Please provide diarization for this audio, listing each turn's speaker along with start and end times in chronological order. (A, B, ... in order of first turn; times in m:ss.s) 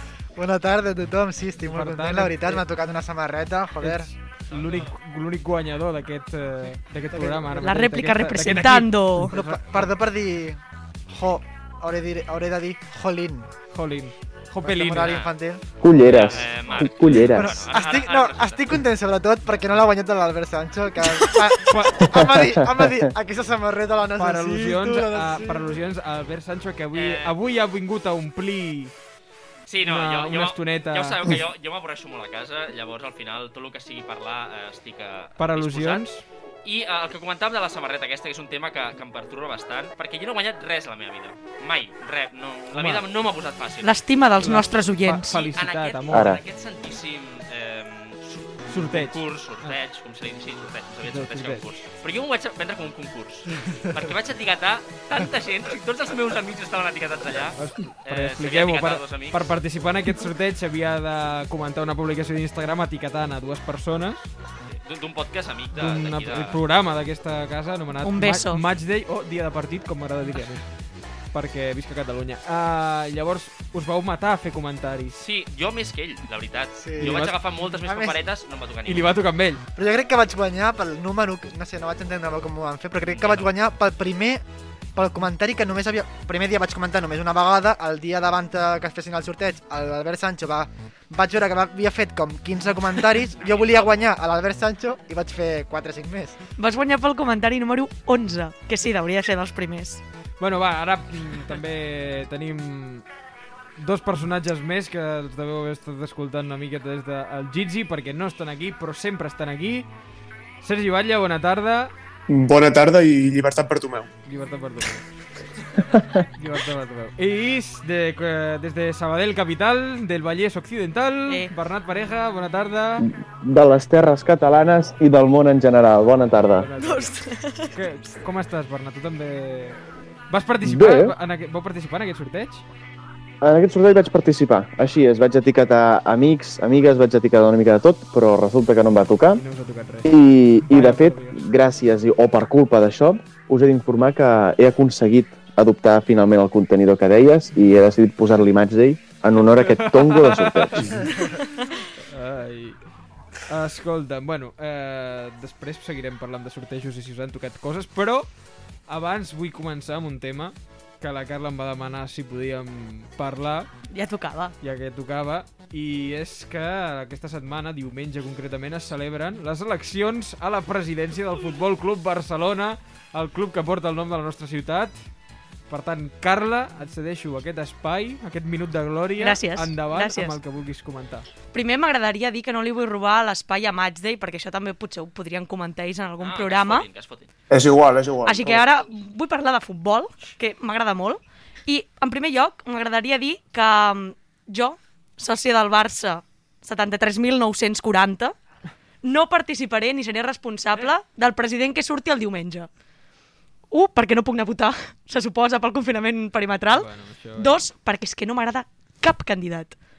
0:00.4-0:04.1 A
0:01.6-0:02.7 B
0:03.8-0:09.9 B
0:04.5-0:04.9 C
0:07.1-0:07.5 A
0:07.5-0:09.3 D
0:09.3-0:13.5 A
0:13.7-0:15.2 B
0:14.6-0:16.3 A
0:15.0-0:15.3 C
0:15.8-0:17.6 E
0:16.0-0:18.8 C
0:17.2-0:25.8 A
0:21.7-0:22.1 B
0:22.1-0:23.1 E
0:24.2-0:28.9 B
0:26.9-0:27.4 C
0:29.7-0:36.0 C
0:29.8-0:31.2 B
0:35.4-0:36.2 B
0:36.6-0:43.9 C
0:42.7-0:43.0 B
0:43.8-0:45.5 D
0:44.4-0:46.4 B
0:45.5-0:59.5 C
0:46.1-0:46.4 E
0:48.7-0:49.8 B
0:51.0-0:51.7 B
0:57.6-1:04.3 B
1:04.6-1:06.6 C
1:05.8-1:10.7 B
1:08.0-1:08.6 D
1:11.3-1:15.2 B
1:15.2-1:19.2 C
1:16.8-1:18.2 A
1:17.0-1:17.4 B
1:18.9-1:19.6 B
1:19.8-1:24.4 A
1:23.0-1:23.5 C
1:25.0-1:36.4 A
1:33.4-1:33.9 C
1:36.6-1:40.0 D
1:40.4-1:43.0 B
1:43.8-1:49.9 B
1:50.6-1:51.9 B
1:52.3-1:54.1 F
1:54.3-1:55.1 B
1:56.4-2:03.1 B
2:01.3-2:01.5 D
2:03.0-2:06.7 E
2:06.4-2:07.2 B
2:06.8-2:07.8 D
2:07.7-2:12.6 B
2:10.6-2:11.2 E
2:13.4-2:19.4 E
2:19.3-2:21.4 B
2:20.0-2:31.0 E
2:29.6-2:31.4 B
2:32.1-2:32.8 B
2:33.5-2:38.3 B
2:38.9-2:43.7 B
2:43.9-2:44.6 D
2:44.6-2:55.0 B
2:55.7-3:01.3 B
2:59.2-3:00.4 D
3:01.5-3:06.9 D
3:06.2-3:07.3 C
3:07.5-3:08.7 F
3:08.2-3:18.4 D
3:19.0-3:22.7 D
3:23.7-3:29.8 D
3:26.7-3:27.6 B